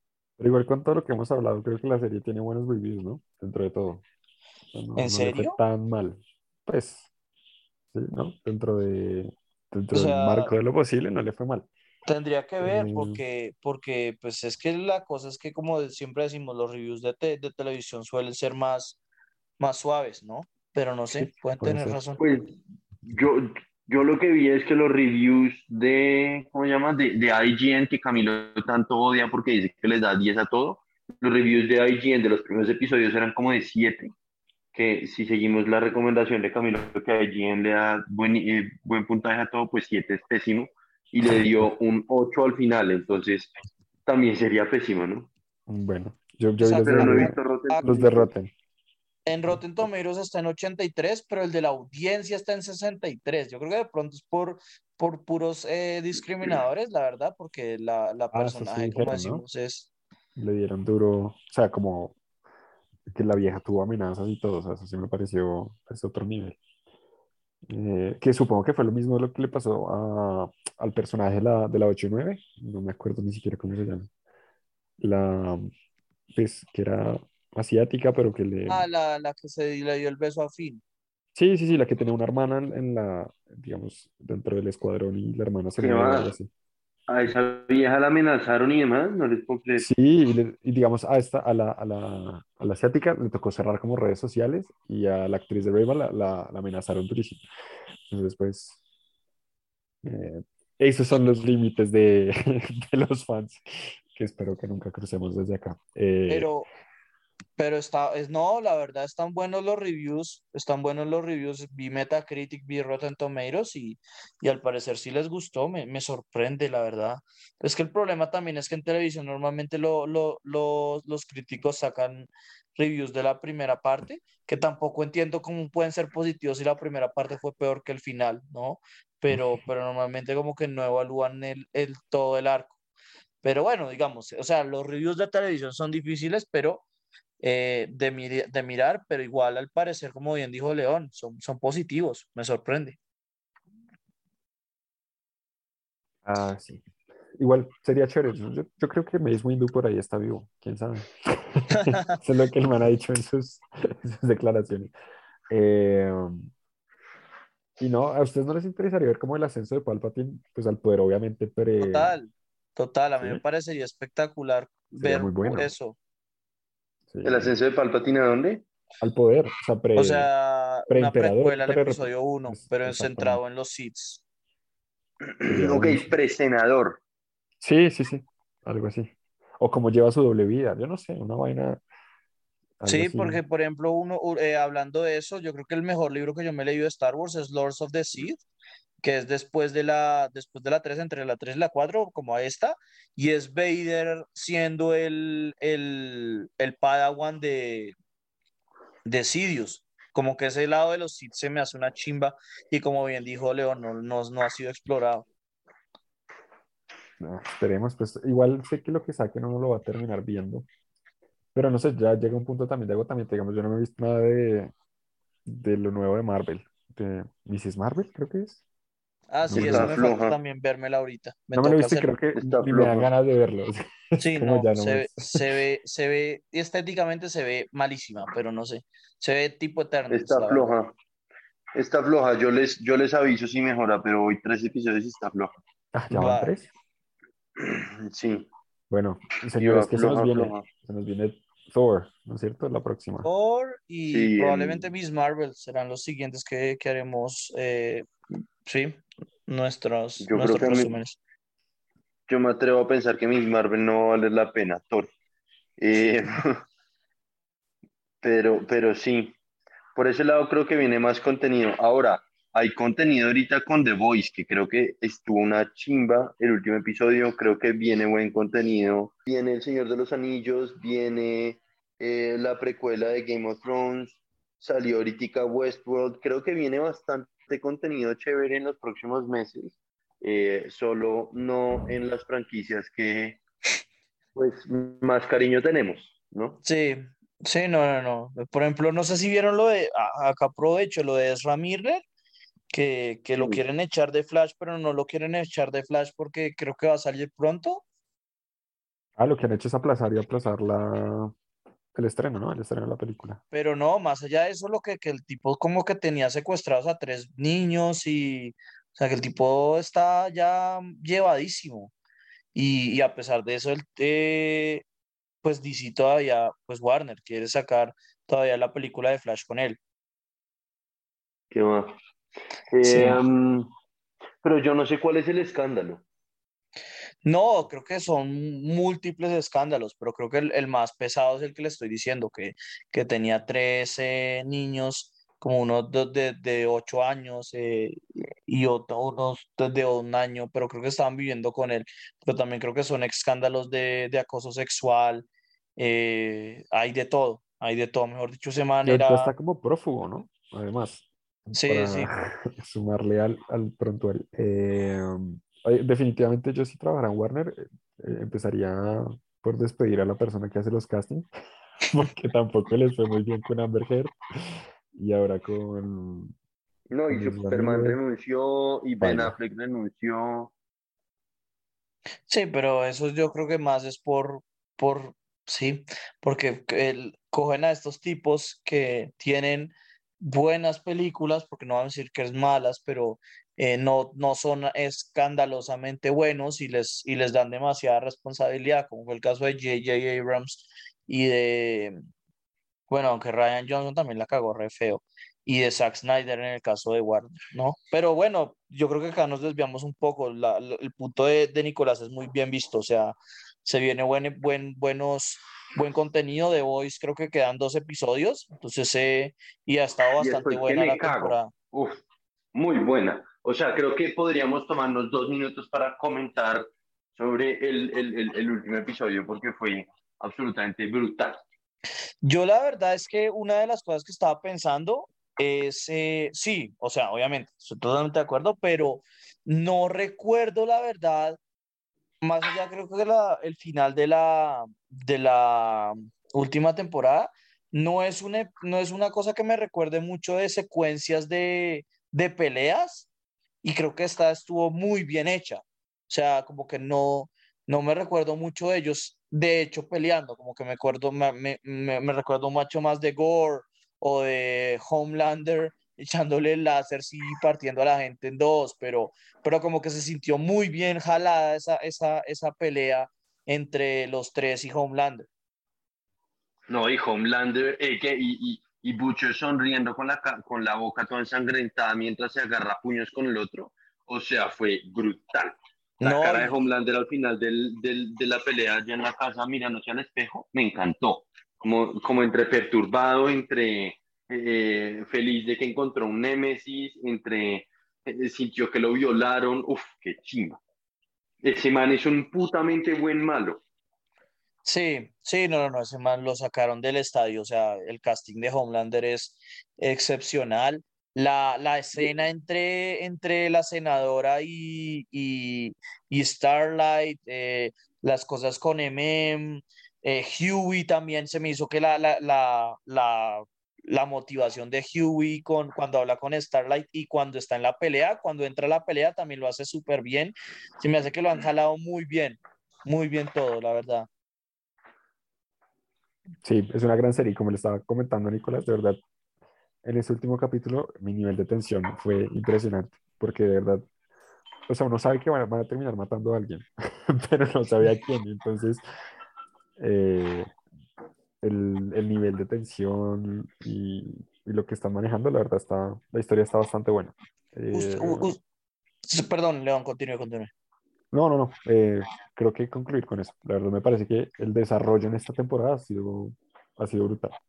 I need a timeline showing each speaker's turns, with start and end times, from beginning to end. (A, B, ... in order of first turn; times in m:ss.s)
0:00.4-0:04.0 A
0:04.7-0:07.1 A
0:05.0-0:05.6 B
0:07.9-0:11.7 A
0:09.9-0:10.5 B
0:12.0-0:19.0 B
0:12.6-0:13.2 A
0:19.6-0:22.2 B
0:21.1-0:22.0 A
0:22.2-0:34.1 C
0:34.7-0:43.5 C
0:44.0-0:45.3 C
0:45.7-0:48.5 A
0:46.6-0:47.9 B
0:46.8-0:48.3 C
0:49.2-0:59.9 B
0:49.5-0:49.9 A
0:58.3-0:59.4 A
1:00.4-1:02.2 A
1:03.1-1:06.6 A
1:07.7-1:14.1 A
1:15.0-1:15.7 A
1:16.3-1:18.8 A
1:18.7-1:20.8 B
1:21.3-1:26.5 A
1:25.8-1:26.3 C
1:27.1-1:29.8 C
1:29.8-1:37.4 A
1:38.1-1:38.8 A
1:40.0-1:46.5 A
1:46.3-1:46.7 B
1:47.6-2:12.7 B
2:13.4-2:16.8 B
2:17.4-2:23.0 B
2:26.2-2:26.8 A
2:27.4-2:34.9 A
2:31.7-2:32.2 B
2:35.5-2:36.5 A
2:37.8-2:42.2 A
2:41.8-2:46.0 B
2:43.2-2:43.4 A
2:44.9-2:45.7 A
2:47.1-2:47.5 A
2:47.2-2:48.7 C
2:49.0-2:50.3 A
2:50.0-2:54.2 B
2:50.9-2:53.4 A
2:55.2-2:57.0 C
2:55.5-2:56.1 A
2:57.6-3:01.8 A
3:02.8-3:03.4 A
3:02.8-3:08.4 B
3:09.0-3:17.9 B
3:19.0-3:25.2 B
3:27.2-3:30.7 A
3:31.5-3:34.7 A
3:35.4-3:38.6 A
3:39.3-3:42.1 B
3:39.5-3:40.0 A
3:39.5-3:40.4 C
3:41.5-3:45.4 A
3:42.4-3:43.1 C
3:44.2-3:50.7 B
3:50.1-3:50.9 C
3:51.7-3:55.5 C
3:55.9-3:56.7 A
3:56.1-3:56.5 B
3:57.6-3:58.5 C
3:58.9-4:03.3 A
3:59.6-4:00.6 C
4:03.2-4:08.1 B
4:04.1-4:04.9 C
4:08.6-4:11.2 B
4:10.2-4:11.0 C
4:12.3-4:15.1 C
4:15.8-4:16.6 C
4:18.2-4:19.3 C
4:19.9-4:43.4 C
4:44.4-4:46.6 C
4:46.6-4:52.0 B
4:52.7-4:57.8 B
4:59.2-5:01.3 A
5:01.9-5:03.4 A
5:03.5-5:11.9 B
5:12.5-5:14.8 B
5:15.4-5:19.8 B
5:21.5-5:22.0 C
5:22.7-5:23.7 C
5:22.8-5:23.2 B
5:24.4-5:26.0 C
5:27.2-5:45.2 B
5:45.8-5:49.3 B
5:48.8-6:01.3 A
5:51.5-5:52.1 B
6:01.9-6:06.3 A
6:06.9-6:10.5 C
6:07.1-6:08.0 A
6:09.0-6:09.3 A
6:12.3-6:32.0 B
6:32.9-6:51.5 B
6:50.2-6:52.0 C
6:52.5-7:01.4 C
7:02.2-7:11.4 B
7:12.2-7:23.1 B
7:23.6-7:45.3 B
7:46.7-8:10.6 C
7:56.0-7:56.5 B
8:11.4-8:13.6 C
8:14.6-8:44.1 B
8:46.4-8:49.0 A
8:49.8-8:53.8 A
8:54.7-8:58.8 A
8:59.8-9:00.5 A
9:01.4-9:08.3 A
9:07.7-9:08.4 B
9:09.0-9:10.5 B
9:11.1-9:17.4 A